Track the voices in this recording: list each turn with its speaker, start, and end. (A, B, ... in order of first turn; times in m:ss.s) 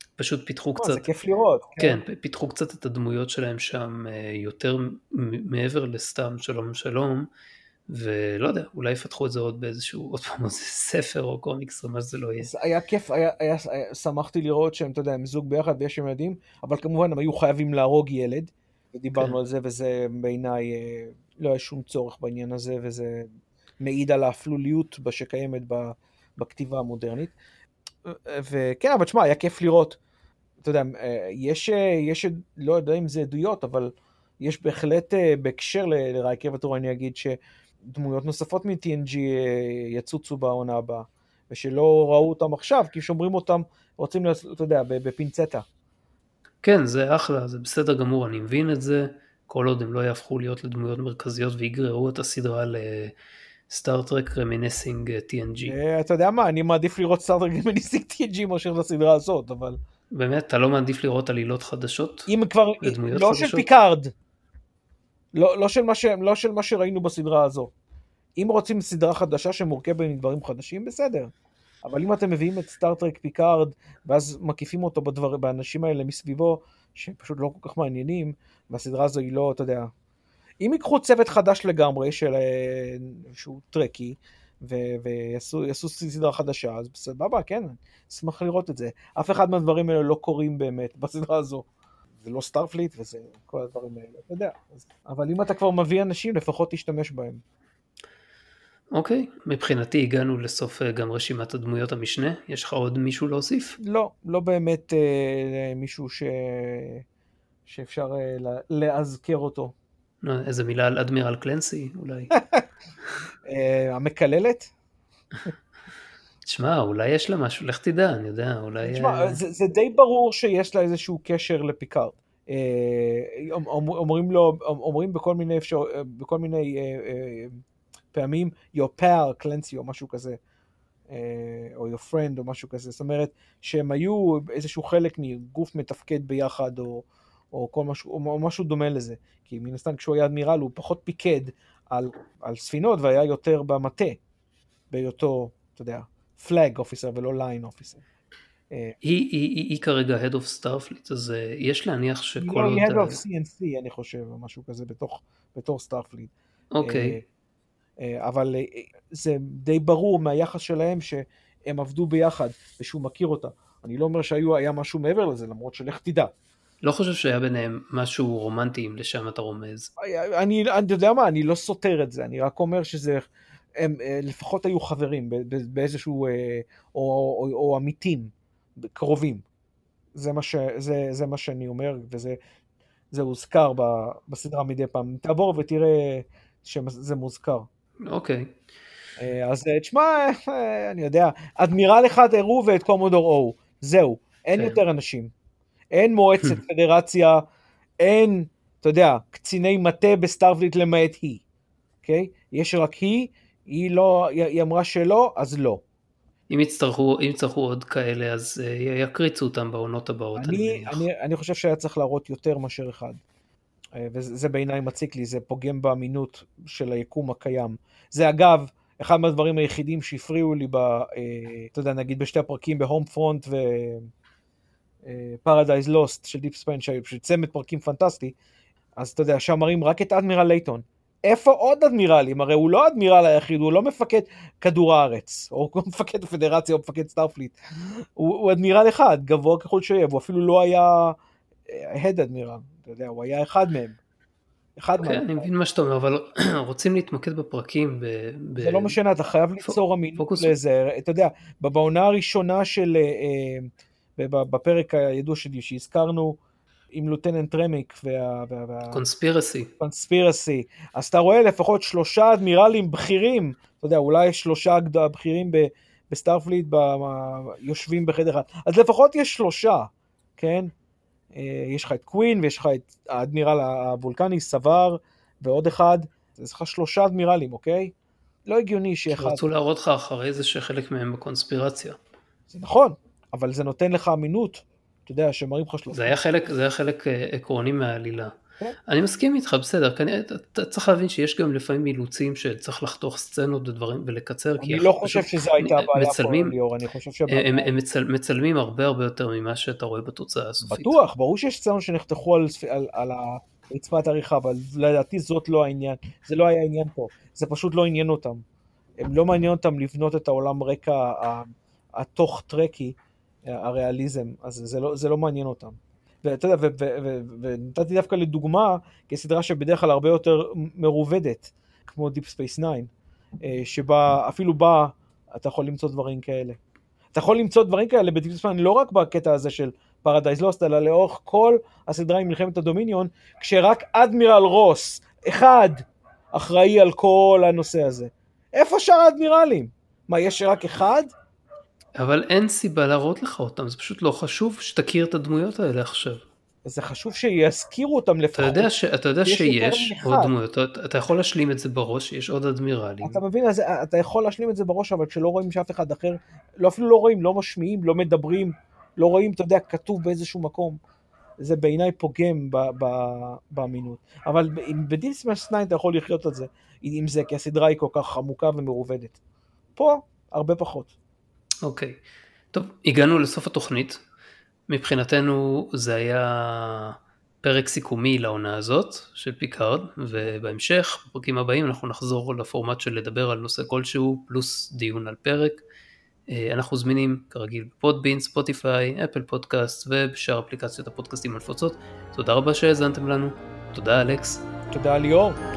0:00.2-0:01.1 A
0:00.8-0:02.0 B
0:01.8-0:07.3 A
0:07.9-0:12.5 A
0:12.4-0:23.3 B
0:23.8-0:27.3 B
0:28.0-0:30.0 B
0:30.6-0:37.4 B
0:37.9-0:45.6 B
0:46.6-0:53.1 A
0:53.7-0:55.7 A
0:55.6-0:59.8 B
1:00.1-1:02.3 A
1:02.3-1:04.1 B
1:02.8-1:03.7 A
1:05.3-1:07.7 B
1:08.4-1:11.3 B
1:11.8-1:19.9 B
1:20.6-1:31.6 B
1:32.2-1:37.4 B
1:38.9-1:43.8 A
1:43.8-1:47.0 B
1:47.7-1:49.7 B
1:50.2-1:52.3 A
1:52.4-1:52.6 B
1:53.4-1:54.7 B
1:56.4-1:59.4 A
1:58.8-2:07.6 B
2:08.1-2:10.4 B
2:11.1-2:24.2 B
2:24.9-2:28.0 B
2:29.0-2:33.2 A
2:32.4-2:36.3 B
2:36.7-2:37.2 A
2:36.8-2:37.2 B
2:38.0-2:46.3 B
2:46.8-2:49.9 A
2:50.0-2:53.2 B
2:53.8-2:59.4 B
3:00.2-3:02.4 B
3:03.1-3:07.7 B
3:08.0-3:08.5 A
3:09.2-3:15.3 B
3:15.9-3:17.4 B
3:18.0-3:21.4 B
3:22.0-3:25.8 B
3:26.5-3:31.0 A
3:30.4-3:33.2 B
3:34.0-3:44.1 B
3:45.0-3:48.3 B
3:49.0-4:01.2 B
4:01.7-4:04.0 B
4:04.8-4:05.5 B
4:05.0-4:09.0 A
4:08.6-4:16.4 B
4:09.6-4:10.5 A
4:16.9-4:19.0 B
4:18.9-4:19.7 A
4:19.8-4:30.7 B
4:31.3-4:37.9 B
4:38.4-4:39.4 B
4:39.1-4:42.0 A
4:42.5-4:46.2 B
4:45.9-4:48.3 A
4:48.9-4:56.5 A
4:54.6-4:57.7 B
4:57.3-5:01.0 A
5:00.6-5:08.4 B
5:09.0-5:22.9 B
5:23.4-5:26.6 B
5:27.1-5:41.1 B
5:42.0-5:46.2 A
5:46.6-5:48.7 B
5:48.3-5:53.2 A
5:49.2-5:50.3 B
5:53.0-6:00.8 B
6:01.4-6:09.2 B
6:09.8-6:10.9 B
6:11.6-6:12.0 A
6:12.5-6:14.0 A
6:14.7-6:25.6 A
6:26.3-6:34.4 A
6:34.7-6:35.4 B